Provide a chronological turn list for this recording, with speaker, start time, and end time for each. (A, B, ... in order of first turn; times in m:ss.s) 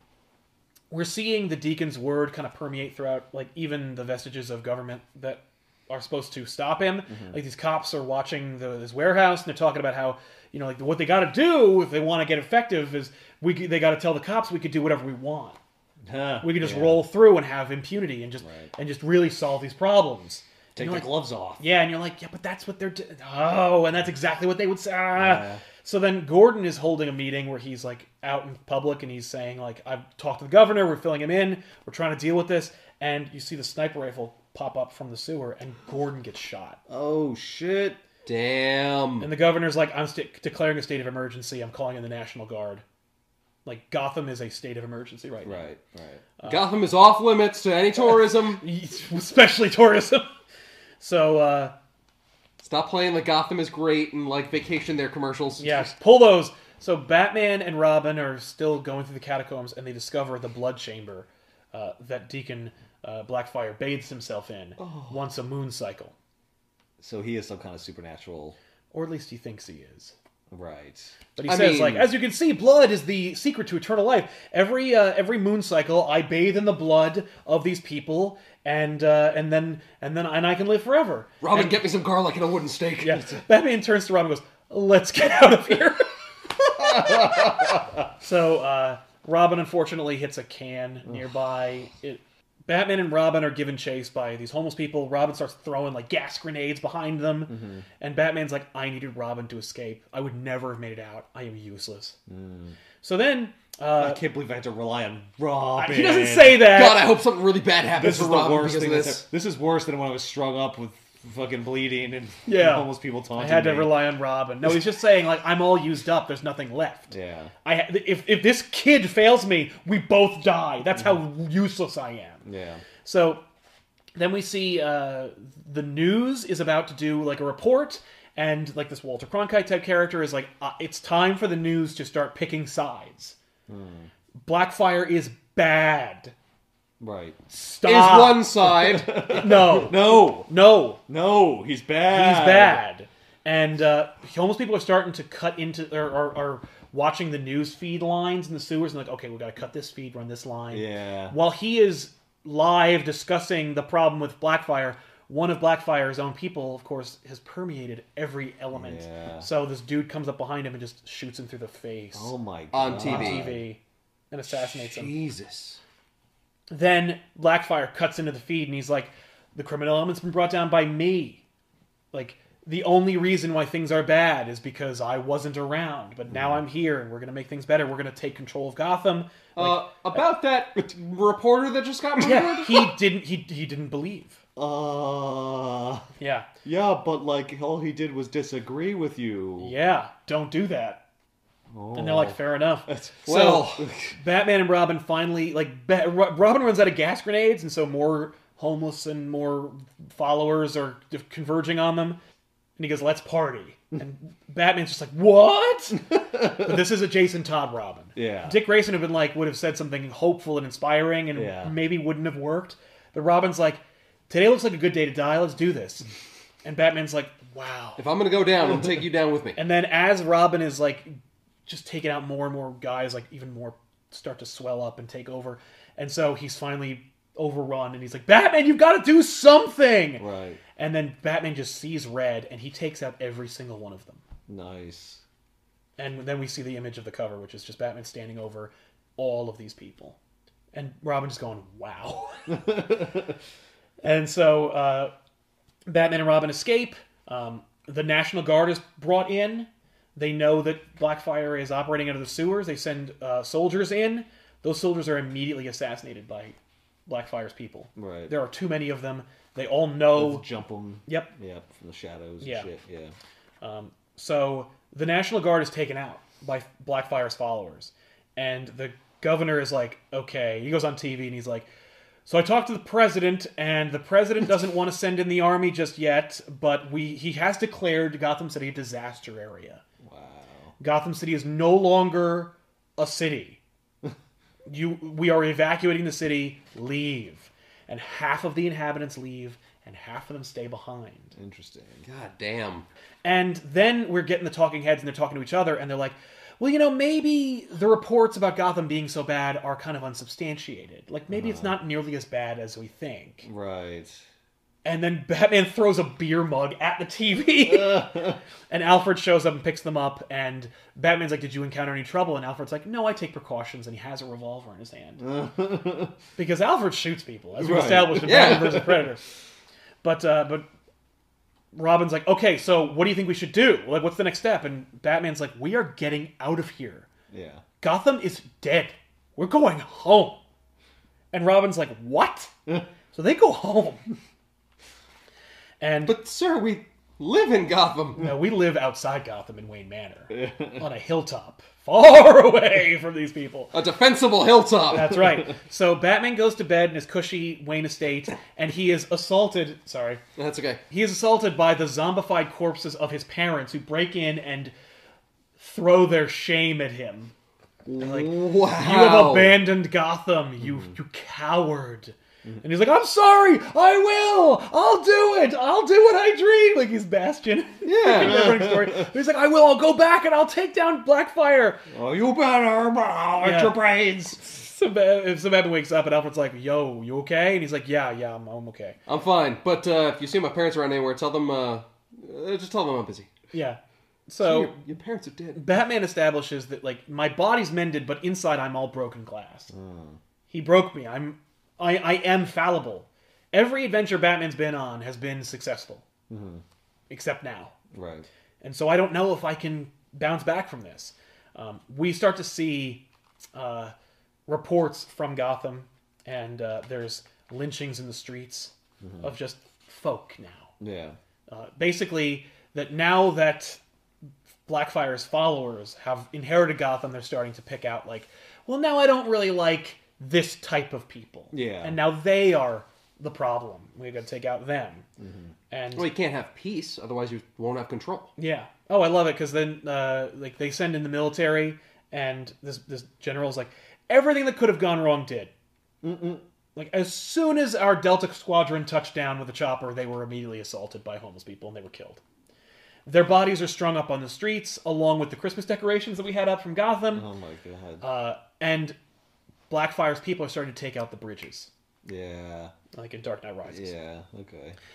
0:00.9-0:15.6 A
0:07.1-0:07.4 B
0:16.0-0:17.0 B
0:16.4-0:36.8 A
0:18.4-0:18.7 B
0:20.8-0:21.6 B
0:25.2-0:25.6 B
0:36.9-0:38.0 B
0:38.2-0:39.3 C
0:39.2-0:42.8 A
0:43.6-0:45.7 A
0:45.4-0:46.2 B
0:46.4-0:48.6 C
0:48.6-0:50.3 A
0:51.0-0:51.7 A
0:52.6-0:55.9 C
0:55.6-1:06.1 A
1:04.8-1:05.2 B
1:07.0-1:08.6 B
1:08.9-1:10.1 A
1:10.5-1:11.2 B
1:11.4-1:21.8 A
1:11.4-1:12.1 C
1:21.4-1:23.3 C
1:23.0-1:26.1 A
1:26.8-1:42.2 A
1:26.8-1:27.8 B
1:37.5-1:37.8 B
1:42.3-1:42.8 B
1:43.0-1:44.2 A
1:44.0-1:46.7 B
1:45.8-1:47.1 A
1:46.5-1:49.2 C
1:47.9-1:54.0 B
1:52.4-2:02.4 A
1:57.1-1:57.5 B
2:02.4-2:02.8 B
2:03.0-2:03.4 A
2:04.2-2:13.4 A
2:13.7-2:14.1 B
2:14.4-2:16.3 A
2:17.0-2:17.4 B
2:17.5-2:18.5 A
2:17.8-2:19.4 C
2:18.6-2:20.5 B
2:19.1-2:21.0 A
2:21.1-2:22.8 B
2:22.1-2:42.3 A
2:30.7-2:31.4 B
2:38.7-2:39.5 B
2:42.1-2:43.6 B
2:42.7-2:43.5 C
2:42.8-2:43.8 A
2:44.3-2:45.1 A
2:44.8-2:45.8 C
2:46.7-2:51.4 A
2:52.1-2:59.8 A
2:56.3-2:56.6 B
2:59.6-3:02.9 C
3:02.2-3:04.4 A
3:04.6-3:06.0 B
3:06.2-3:06.5 A
3:06.6-3:09.7 B
3:09.6-3:11.0 A
3:11.7-3:14.2 B
3:11.9-3:22.2 A
3:13.3-3:13.6 C
3:22.8-3:36.1 A
3:26.1-3:26.8 B
3:28.2-3:28.6 B
3:31.3-3:31.8 B
3:36.6-3:38.0 A
3:38.0-3:39.6 C
3:39.6-3:50.2 A
3:50.2-3:50.6 B
3:50.8-3:54.2 A
3:54.5-3:55.2 B
3:56.0-4:00.2 A
4:00.7-4:02.7 A
4:02.5-4:03.3 B
4:04.0-4:05.1 A
4:05.9-4:16.6 A
4:17.1-4:20.4 A
4:18.0-4:18.3 B
4:20.1-4:23.1 B
4:22.4-4:22.7 A
4:23.6-4:31.7 A
4:32.2-4:39.8 A
4:40.0-4:40.7 B
4:40.8-4:43.6 A
4:44.7-4:51.3 A
4:51.3-4:52.0 B
4:52.0-4:52.8 C
4:53.2-5:03.5 A
5:01.3-5:01.8 B
5:03.4-5:04.2 B
5:04.8-5:15.2 A
5:07.7-5:08.4 B
5:15.2-5:16.1 B
5:16.4-5:19.2 A
5:17.6-5:19.0 B
5:18.2-5:18.9 C
5:20.0-5:20.7 A
5:21.7-5:27.1 A
5:27.3-5:27.6 B
5:27.8-5:30.4 A
5:31.3-5:32.5 A
5:33.1-5:34.0 A
5:35.8-5:36.2 A
5:36.0-5:38.2 C
5:38.2-5:43.7 A
5:40.3-5:40.8 B
5:43.7-5:45.2 C
5:44.9-5:50.2 A
5:50.4-5:50.8 C
5:50.9-5:54.7 A
5:55.6-5:57.3 A
5:57.9-5:59.6 C
5:58.0-6:11.8 A
6:00.6-6:00.9 B
6:07.9-6:08.4 C
6:08.0-6:09.1 B
6:11.9-6:14.4 B
6:13.4-6:13.8 A
6:14.4-6:19.0 A
6:19.1-6:23.3 C
6:23.5-6:24.7 A
6:24.4-6:25.6 C
6:25.5-6:29.7 A
6:29.7-6:30.2 B
6:30.5-6:36.0 A
6:36.3-6:36.6 B
6:37.1-6:37.7 A
6:37.9-6:38.3 B
6:38.6-6:43.9 A
6:44.5-6:50.7 A
6:49.0-6:49.3 B
6:50.8-6:51.2 B
6:51.5-6:53.8 A
6:54.6-7:05.1 A
7:01.5-7:02.0 B
7:05.2-7:05.5 B
7:05.7-7:06.1 A
7:05.9-7:08.3 C
7:08.4-7:15.5 A
7:16.0-7:16.4 B
7:16.8-7:22.2 A
7:23.0-7:27.3 A
7:27.1-7:28.0 B
7:28.0-7:29.0 A
7:29.7-7:31.7 A
7:32.0-7:32.7 B
7:32.9-7:33.9 A
7:33.7-7:34.8 B